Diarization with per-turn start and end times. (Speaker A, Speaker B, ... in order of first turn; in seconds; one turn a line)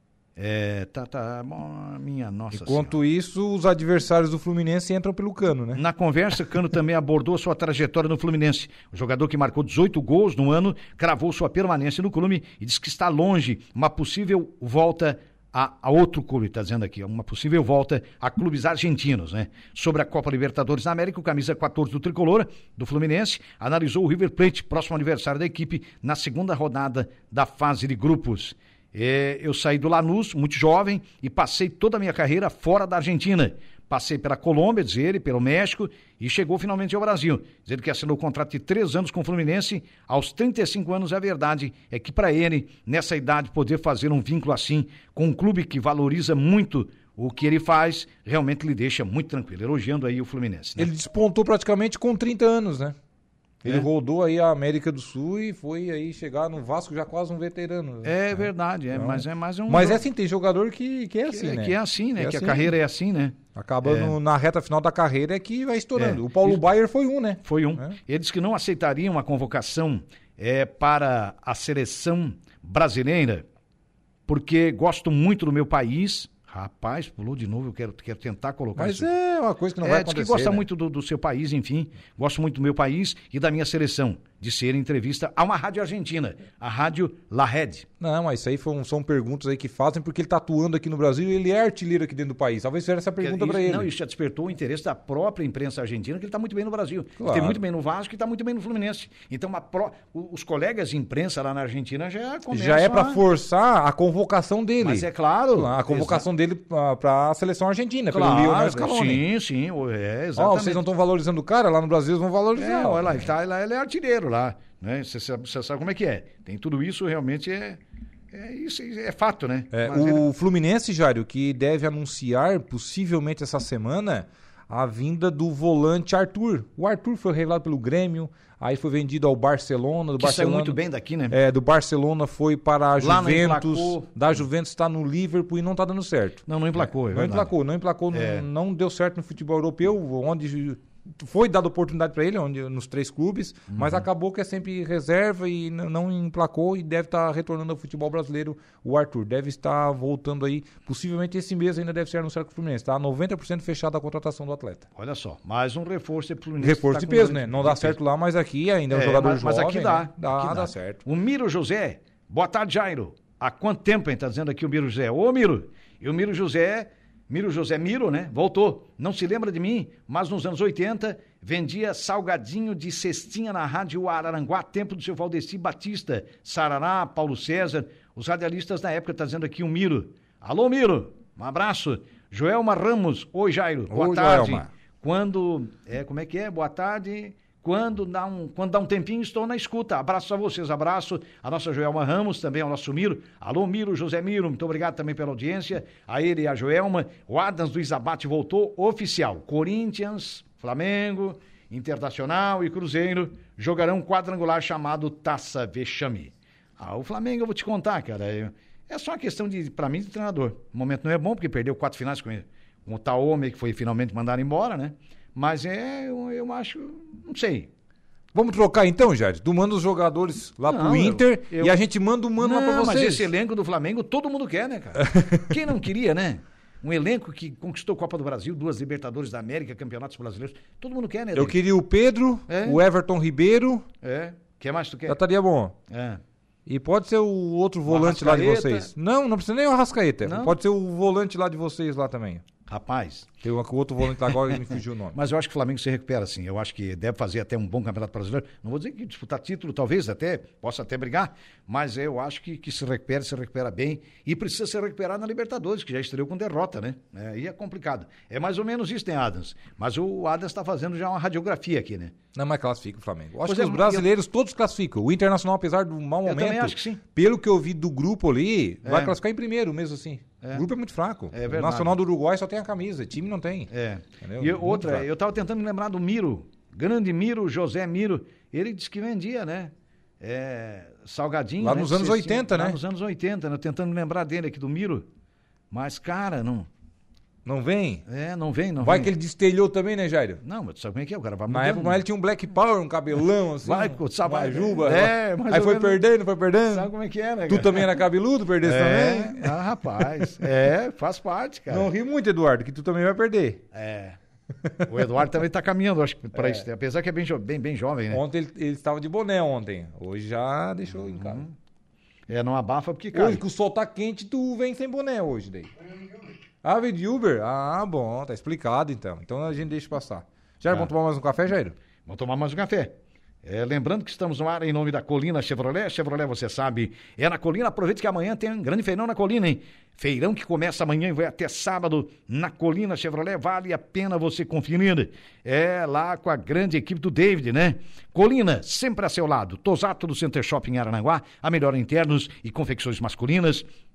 Speaker A: 0.3-3.0
Speaker B: 2.5-5.8
Speaker A: 5.7-50.9
Speaker B: 50.8-53.0
Speaker B: 53.6-62.7
Speaker A: 58.0-60.0
Speaker A: 61.3-64.2
Speaker B: 63.5-68.0
Speaker A: 66.0-66.6
Speaker A: 67.4-73.5
Speaker A: 74.3-79.1
Speaker B: 78.8-80.7
Speaker A: 79.8-87.9
Speaker B: 88.0-93.9
Speaker A: 93.2-103.2
Speaker B: 97.2-97.6
Speaker B: 102.5-109.2
Speaker A: 104.8-106.2
Speaker A: 108.1-110.8
Speaker B: 110.3-113.3
Speaker A: 112.5-117.8
Speaker A: 118.3-120.2
Speaker B: 119.7-130.8
Speaker A: 130.2-131.4
Speaker B: 131.3-154.9
Speaker A: 133.0-134.1
Speaker A: 136.5-137.5
Speaker A: 138.1-138.4
Speaker A: 143.7-144.0
Speaker A: 154.9-158.0
Speaker B: 156.6-161.0
Speaker A: 158.9-217.7
Speaker B: 183.9-184.7
Speaker B: 218.3-223.3
Speaker A: 220.6-221.8
Speaker A: 222.4-231.6
Speaker B: 225.0-225.4
Speaker B: 231.3-233.8
Speaker A: 232.5-232.8
Speaker A: 234.0-235.2
Speaker B: 235.1-235.8
Speaker A: 235.9-236.2
Speaker B: 236.7-242.4
Speaker A: 237.8-238.9
Speaker A: 240.2-240.5
Speaker A: 242.7-243.3
Speaker B: 243.4-245.2
Speaker A: 244.5-262.1
Speaker B: 262.3-273.7
Speaker A: 263.4-264.1
Speaker A: 266.2-267.0
Speaker A: 268.8-269.1
Speaker A: 271.3-271.9
Speaker A: 273.7-285.1
Speaker B: 274.2-275.1
Speaker B: 281.6-282.8
Speaker A: 285.7-286.7
Speaker B: 287.4-288.0
Speaker A: 288.1-289.1
Speaker B: 288.8-290.4
Speaker A: 290.4-292.0
Speaker B: 291.5-296.9
Speaker A: 293.6-296.0
Speaker A: 296.7-298.0
Speaker B: 297.5-300.5
Speaker A: 298.6-301.9
Speaker B: 301.7-303.6
Speaker A: 303.7-304.2
Speaker A: 304.8-308.2
Speaker B: 306.4-306.6
Speaker B: 308.1-311.4
Speaker A: 310.9-311.5
Speaker A: 312.3-313.4
Speaker B: 313.1-315.7
Speaker B: 316.6-321.8
Speaker A: 322.1-343.7